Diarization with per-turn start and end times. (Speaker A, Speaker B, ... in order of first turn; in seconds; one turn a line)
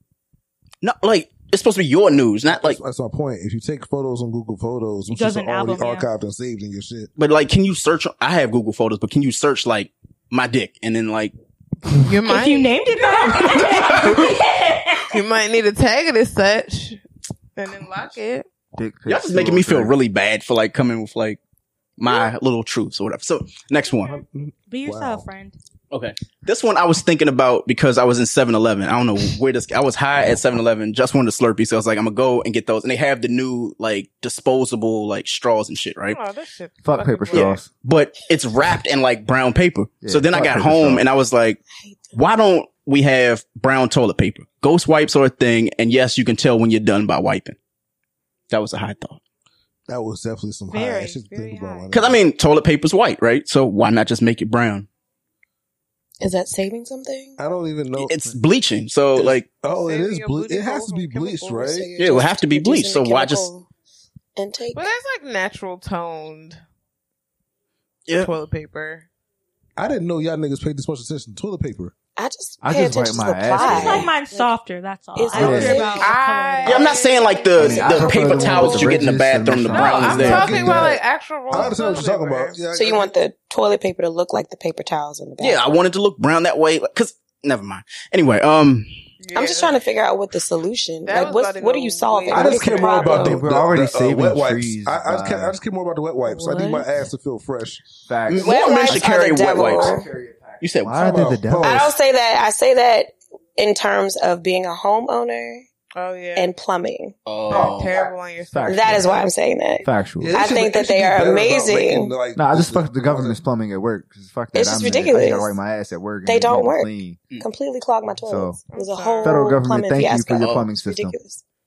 Speaker A: 0.8-2.8
Speaker B: 2.5-7.1
Speaker C: 5.1-6.1
Speaker A: 7.2-11.3
Speaker D: 11.9-12.8
Speaker C: 12.2-15.1
Speaker D: 15.1-17.0
Speaker D: 17.6-18.5
Speaker E: 18.8-19.9
Speaker A: 19.1-21.4
Speaker A: 22.0-24.2
Speaker B: 24.0-25.3
Speaker C: 24.7-25.6
Speaker A: 25.9-36.2
Speaker D: 36.1-37.6
Speaker E: 36.8-37.7
Speaker A: 37.3-41.6
Speaker E: 40.0-41.0
Speaker F: 41.7-42.2
Speaker A: 42.1-47.5
Speaker A: 48.5-49.2
Speaker B: 49.9-52.2
Speaker C: 50.7-51.8
Speaker D: 51.3-51.8
Speaker A: 51.9-54.9
Speaker F: 56.2-57.4
Speaker B: 57.4-58.4
Speaker A: 58.0-59.5
Speaker B: 59.1-62.0
Speaker D: 59.7-61.9
Speaker F: 61.8-63.7
Speaker A: 62.0-63.5
Speaker F: 64.3-64.9
Speaker D: 64.7-66.6
Speaker D: 68.2-69.1
Speaker B: 69.8-71.9
Speaker F: 72.2-74.5
Speaker E: 72.6-74.1
Speaker C: 73.5-77.1
Speaker F: 75.1-76.2
Speaker E: 75.3-75.8
Speaker D: 75.5-78.9
Speaker A: 76.6-80.6
Speaker E: 77.5-81.0
Speaker D: 79.7-82.6
Speaker B: 80.2-83.1
Speaker F: 82.7-85.6
Speaker A: 85.4-88.9
Speaker D: 89.2-89.7
Speaker F: 89.3-93.4
Speaker D: 91.0-93.3
Speaker B: 92.3-97.8
Speaker E: 93.2-95.5
Speaker D: 96.3-96.8
Speaker E: 98.1-101.9
Speaker A: 98.3-100.0
Speaker F: 98.3-100.1
Speaker A: 100.6-101.0
Speaker B: 101.0-101.9
Speaker F: 101.6-105.7
Speaker D: 105.9-106.5
Speaker F: 106.3-107.2
Speaker A: 107.2-107.9
Speaker D: 107.5-109.2
Speaker E: 108.5-109.2
Speaker F: 108.7-112.1
Speaker E: 109.8-110.4
Speaker B: 110.2-113.4
Speaker E: 112.3-117.2
Speaker F: 114.5-115.5
Speaker F: 116.2-121.4
Speaker E: 118.2-118.6
Speaker D: 118.7-119.5
Speaker E: 119.2-121.2
Speaker A: 120.4-120.7